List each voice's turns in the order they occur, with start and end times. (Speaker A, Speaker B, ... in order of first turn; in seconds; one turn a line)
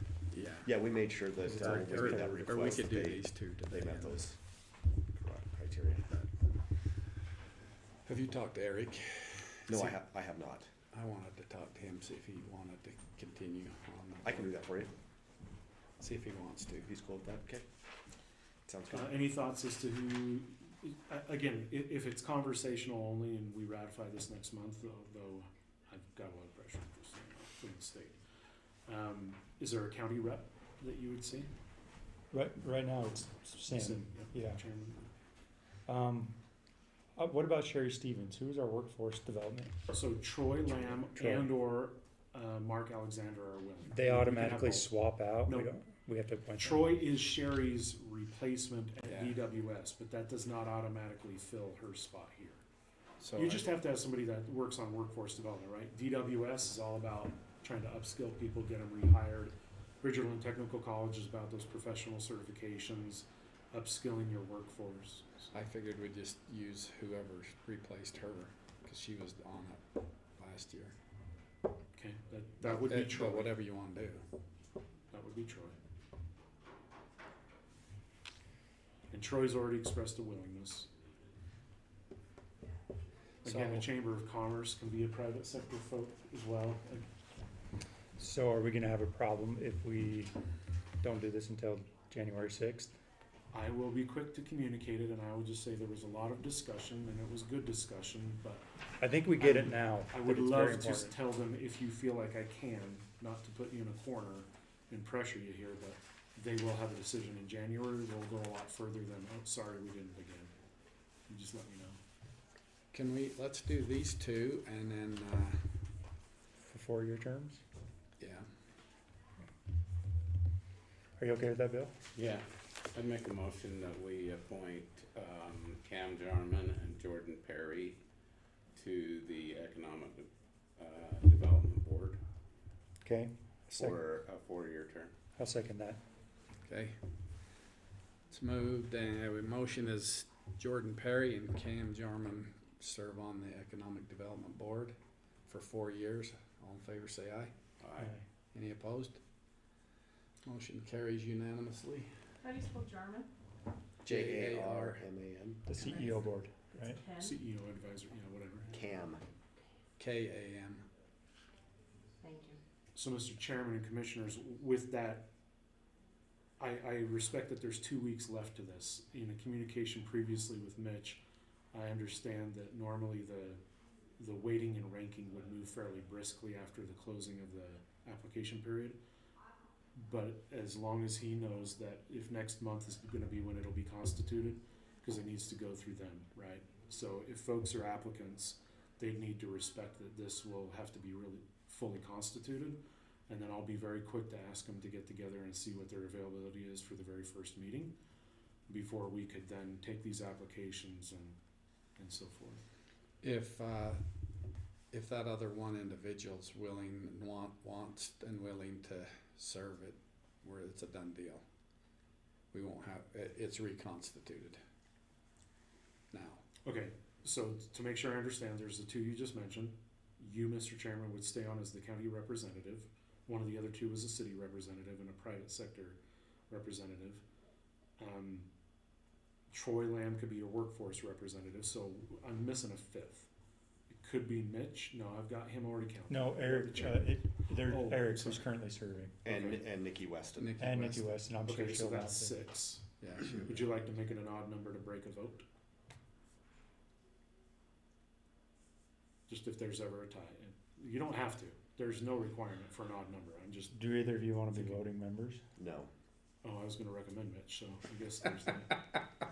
Speaker A: 0.3-0.7
Speaker B: 0.6-4.4
Speaker C: 1.4-2.7
Speaker A: 2.4-4.3
Speaker B: 5.1-6.2
Speaker A: 8.0-9.9
Speaker B: 9.7-10.7
Speaker A: 10.9-14.5
Speaker B: 14.2-14.9
Speaker A: 16.0-16.9
Speaker B: 16.9-17.6
Speaker B: 18.6-19.1
Speaker D: 18.9-28.1
Speaker D: 28.9-31.5
Speaker C: 32.3-34.6
Speaker D: 33.7-35.1
Speaker C: 35.9-36.3
Speaker C: 37.1-39.7
Speaker D: 39.9-45.7
Speaker C: 41.0-41.5
Speaker C: 43.8-47.0
Speaker D: 46.6-52.6
Speaker A: 49.1-49.3
Speaker A: 53.2-53.6
Speaker D: 53.3-65.5
Speaker A: 65.5-71.0
Speaker D: 71.9-73.5
Speaker A: 72.6-74.2
Speaker D: 75.1-75.8
Speaker D: 79.1-80.9
Speaker D: 83.4-87.0
Speaker A: 83.4-83.7
Speaker C: 88.2-90.3
Speaker C: 91.0-93.0
Speaker D: 93.5-98.6
Speaker C: 99.0-101.2
Speaker D: 99.4-110.5
Speaker D: 111.3-112.0
Speaker A: 112.9-115.7
Speaker C: 116.6-117.6
Speaker A: 118.2-118.5
Speaker C: 121.2-121.9
Speaker E: 122.1-128.0
Speaker E: 128.7-132.2
Speaker C: 133.0-134.1
Speaker B: 133.8-134.1
Speaker E: 133.8-135.1
Speaker C: 135.4-136.0
Speaker A: 136.6-136.9
Speaker A: 138.3-147.5
Speaker E: 147.8-148.2
Speaker C: 147.9-148.2
Speaker A: 148.5-149.2
Speaker A: 150.4-152.2
Speaker F: 152.4-153.3
Speaker A: 154.0-155.0
Speaker B: 154.1-155.6
Speaker C: 155.7-157.0
Speaker F: 155.7-157.4
Speaker D: 157.1-158.7
Speaker B: 158.7-159.2
Speaker A: 160.0-160.8
Speaker F: 162.2-162.6
Speaker D: 162.9-165.3
Speaker D: 166.6-171.2
Speaker D: 171.7-173.6
Speaker D: 174.2-179.0
Speaker D: 179.9-197.9
Speaker D: 198.7-201.3
Speaker D: 202.0-202.6
Speaker A: 203.2-204.0
Speaker A: 204.9-211.4
Speaker A: 212.5-214.6
Speaker A: 216.1-216.4
Speaker D: 216.6-227.2
Speaker D: 228.0-228.5
Speaker D: 229.5-233.3
Speaker D: 233.9-238.5
Speaker C: 236.1-239.2
Speaker B: 239.2-240.5
Speaker D: 239.3-239.6
Speaker A: 240.3-241.1
Speaker C: 240.6-242.4
Speaker D: 241.4-245.4
Speaker A: 243.0-243.4
Speaker D: 249.3-253.8
Speaker C: 253.7-255.4
Speaker D: 254.5-254.8
Speaker B: 255.6-255.9
Speaker D: 256.4-258.8